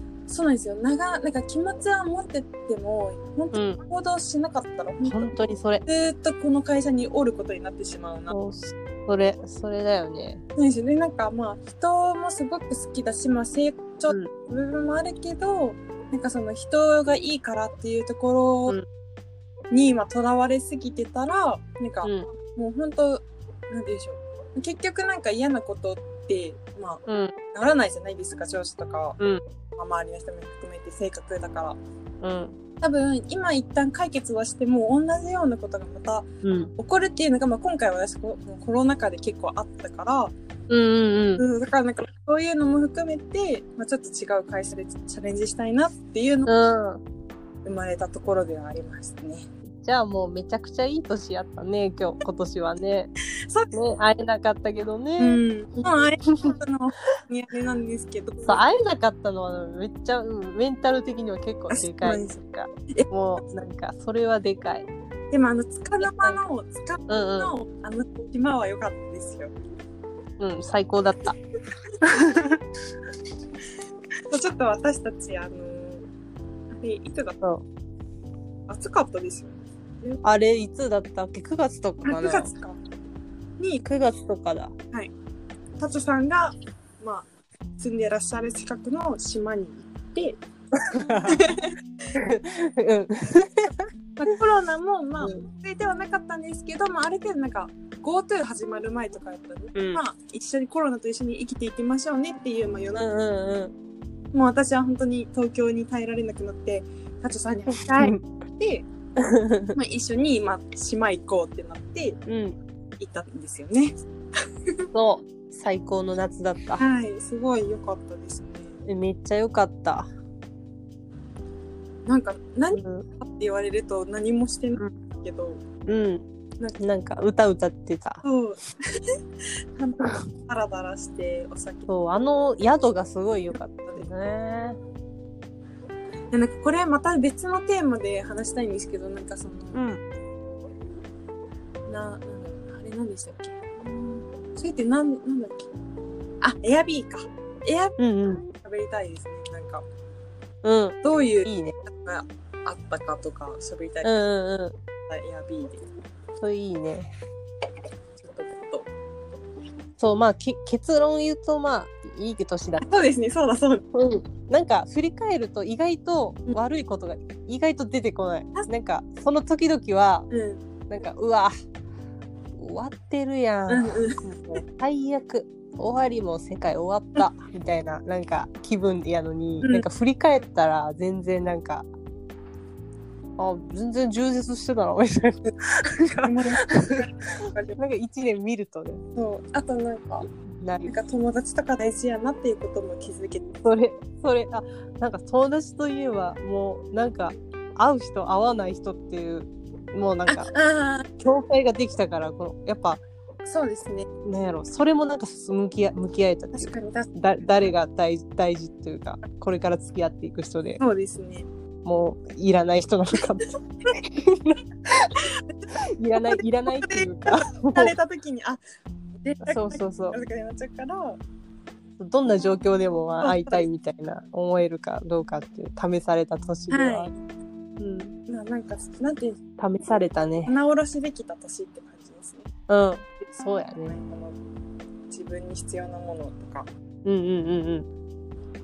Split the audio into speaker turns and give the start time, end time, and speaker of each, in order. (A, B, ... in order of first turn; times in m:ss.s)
0:00.3-0:05.3 A
0:03.5-0:03.8 B
0:05.0-0:05.8 B
0:05.8-0:08.3 A
0:08.3-0:10.4 B
0:10.6-0:18.8 A
0:19.7-0:27.0 A
0:27.1-0:27.3 B
0:27.5-0:29.2 A
0:29.8-0:31.8 A
0:32.2-0:32.6 B
0:32.8-0:40.3 A
0:36.4-0:36.7 B
0:40.7-0:41.4 B
0:41.4-0:46.5 A
0:46.5-0:47.0 B
0:47.6-0:49.5 A
0:49.8-0:53.1 B
0:53.4-0:53.7 A
0:53.7-0:55.4 B
0:55.2-0:58.6 A
0:56.3-0:56.5 B
0:58.4-1:04.9 B
1:01.7-1:02.4 A
1:05.3-1:09.5 A
1:06.0-1:06.4 B
1:07.1-1:07.5 B
1:10.4-1:11.4 B
1:12.0-1:12.6 B
1:14.3-1:16.1 A
1:16.7-1:17.3 A
1:18.7-1:20.2 A
1:20.2-1:22.5 B
1:22.0-1:22.8 A
1:23.8-1:24.7 B
1:25.8-1:27.3 A
1:27.8-1:30.4 A
1:30.8-1:31.6 B
1:31.2-1:31.7 A
1:32.1-1:33.8 B
1:34.2-1:43.1 A
1:35.2-1:35.5 B
1:39.7-1:40.0 B
1:42.9-1:43.7 B
1:44.3-1:48.9 A
1:47.7-1:48.2 B
1:49.2-1:49.8 B
1:49.7-1:52.2 A
1:52.2-1:52.6 B
1:53.0-1:54.0 A
1:54.9-1:56.8 B
1:56.8-1:58.8 A
1:58.8-2:00.1 B
2:02.0-2:05.6 A
2:02.7-2:03.0 B
2:05.8-2:06.2 B
2:06.8-2:08.2 B
2:08.2-2:09.1 A
2:09.8-2:11.9 A
2:11.9-2:14.8 B
2:16.3-2:19.8 A
2:19.7-2:20.0 B
2:21.9-2:25.7 A
2:26.4-2:28.0 A
2:28.0-2:28.4 B
2:28.5-2:29.8 A
2:30.6-2:31.8 B
2:31.0-2:34.3 A
2:34.0-2:34.8 B
2:35.1-2:35.8 A
2:36.4-2:37.1 B
2:38.2-2:38.9 A
2:40.0-2:42.8 B
2:42.8-2:43.8 A
2:43.9-2:50.3 B
2:50.3-2:50.6 A
2:50.9-2:51.5 B
2:52.6-3:01.9 B
2:53.7-2:54.6 A
3:03.4-3:07.1 B
3:06.2-3:07.8 A
3:07.8-3:09.0 B
3:09.2-3:10.3 A
3:10.6-3:10.9 B
3:10.8-3:13.5 A
3:13.6-3:20.5 B
3:20.3-3:21.1 A
3:21.2-3:23.0 B
3:23.4-3:24.1 A
3:24.2-3:30.8 B
3:26.5-3:27.7 A
3:30.8-3:31.5 A
3:31.8-3:35.2 B
3:35.7-3:37.9 B
3:36.1-3:38.6 A
3:39.2-3:41.2 A
3:39.4-3:40.2 B
3:42.0-3:47.1 B
3:43.2-3:43.7 A
3:46.7-3:47.2 A
3:47.8-3:48.1 B
3:48.3-3:49.4 A
3:49.6-3:50.5 B
3:50.4-3:52.5 A
3:52.7-3:54.0 B
3:53.8-3:54.4 A
3:55.1-3:56.7 A
3:57.0-3:57.9 B